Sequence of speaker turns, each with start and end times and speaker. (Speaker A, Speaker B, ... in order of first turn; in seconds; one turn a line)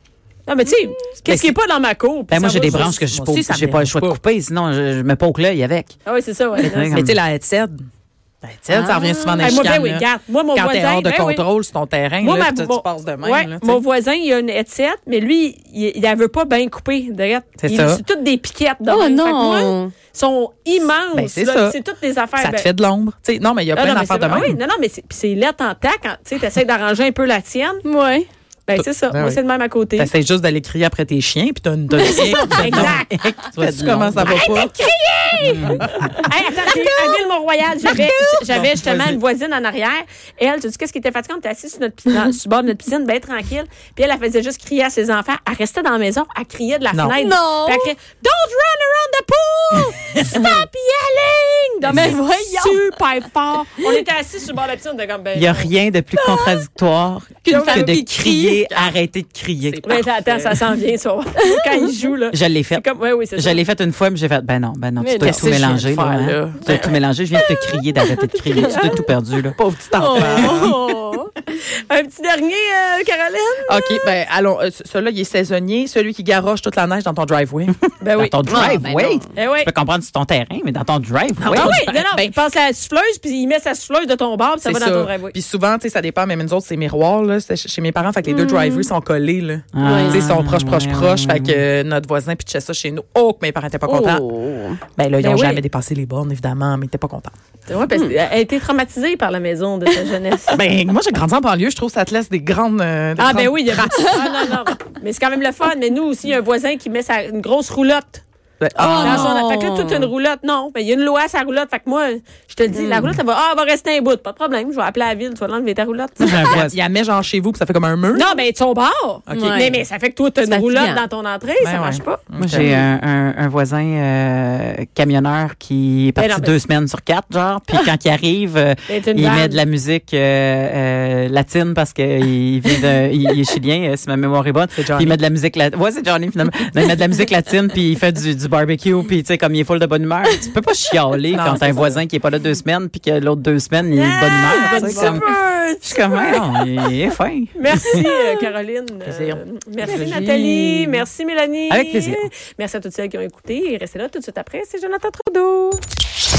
Speaker A: 0.5-3.0
Speaker B: 1.2-1.5
Speaker B: 2.3-5.9
Speaker C: 2.5-4.2
Speaker A: 6.0-7.0
Speaker B: 6.6-7.2
Speaker C: 6.9-7.8
Speaker C: 8.4-13.8
Speaker D: 8.7-9.7
Speaker A: 9.4-11.4
Speaker A: 12.2-22.7
Speaker C: 17.6-18.0
Speaker D: 18.9-19.9
Speaker C: 21.1-21.8
Speaker C: 22.4-24.6
Speaker A: 23.7-27.8
Speaker D: 27.8-28.3
Speaker A: 28.7-30.1
Speaker C: 28.8-29.4
Speaker C: 29.9-34.7
Speaker D: 31.9-32.7
Speaker A: 32.2-33.2
Speaker B: 32.6-34.6
Speaker A: 34.2-55.7
Speaker B: 35.4-36.1
Speaker C: 35.6-36.1
Speaker C: 37.9-39.2
Speaker D: 47.1-47.9
Speaker D: 50.3-50.6
Speaker D: 51.9-52.9
Speaker B: 55.3-59.8
Speaker D: 56.1-56.6
Speaker D: 57.4-58.6
Speaker A: 57.5-57.9
Speaker C: 58.6-58.9
Speaker C: 59.6-60.6
Speaker A: 59.8-63.6
Speaker D: 61.4-61.9
Speaker B: 62.3-69.6
Speaker D: 65.0-65.5
Speaker C: 65.2-66.9
Speaker A: 66.7-66.9
Speaker D: 68.4-68.9
Speaker C: 69.6-70.8
Speaker D: 69.9-71.3
Speaker B: 70.1-70.5
Speaker A: 71.5-74.1
Speaker C: 73.7-78.8
Speaker A: 78.0-78.4
Speaker B: 78.2-81.8
Speaker D: 78.5-79.2
Speaker A: 79.3-79.7
Speaker C: 81.4-82.3
Speaker A: 81.5-85.3
Speaker C: 84.6-94.2
Speaker D: 88.2-88.9
Speaker B: 89.7-91.6
Speaker D: 89.8-90.3
Speaker D: 93.8-94.8
Speaker C: 95.0-97.3
Speaker A: 95.2-95.6
Speaker A: 97.7-100.6
Speaker C: 100.5-104.2
Speaker A: 103.2-108.2
Speaker C: 108.6-109.3
Speaker D: 108.8-110.1
Speaker B: 108.8-109.2
Speaker A: 109.0-116.5
Speaker D: 112.7-113.1
Speaker B: 116.2-116.8
Speaker C: 116.3-118.4
Speaker A: 118.1-122.2
Speaker C: 119.3-119.7
Speaker D: 119.3-119.8
Speaker D: 120.4-121.0
Speaker C: 121.6-122.8
Speaker B: 122.4-145.3
Speaker A: 126.2-126.6
Speaker A: 128.9-129.6
Speaker C: 134.8-135.2
Speaker C: 141.3-142.0
Speaker A: 143.9-146.5
Speaker C: 144.7-145.2
Speaker B: 145.8-148.1
Speaker A: 147.5-155.8
Speaker C: 149.0-150.2
Speaker D: 149.8-151.0
Speaker B: 151.7-152.3